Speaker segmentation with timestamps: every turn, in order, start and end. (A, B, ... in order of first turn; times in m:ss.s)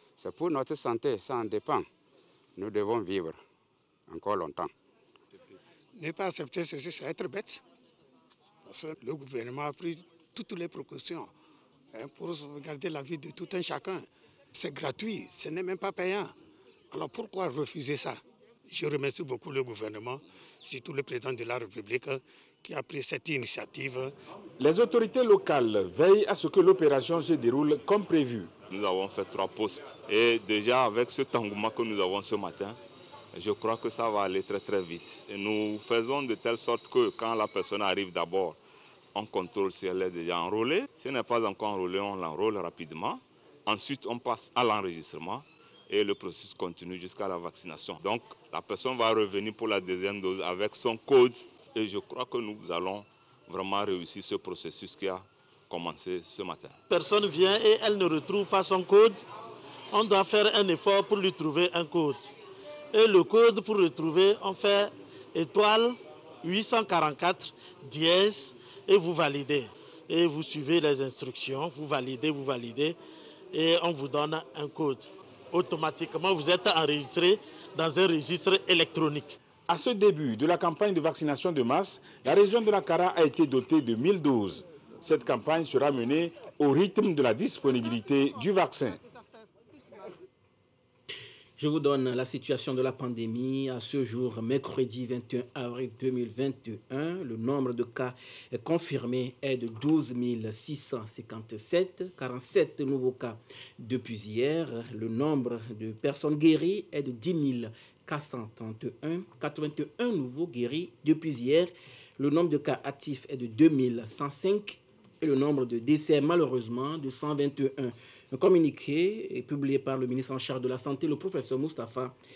0:00.2-0:01.9 A
0:02.6-0:03.4 A
0:04.1-0:04.7 A
0:05.9-0:07.6 B
0:08.6-0:11.3 B
0:11.9-0:16.3 B
0:16.9-0:24.1 B
0:24.6-0:28.5 C
0:28.7-0:32.8 D
0:33.3-0:38.6 D
0:39.1-0:56.7 D
0:56.9-0:59.2 E
0:59.9-1:02.3 E
1:02.9-1:13.0 E
1:13.5-1:19.4 E
1:19.7-1:29.0 C
1:31.6-2:02.1 F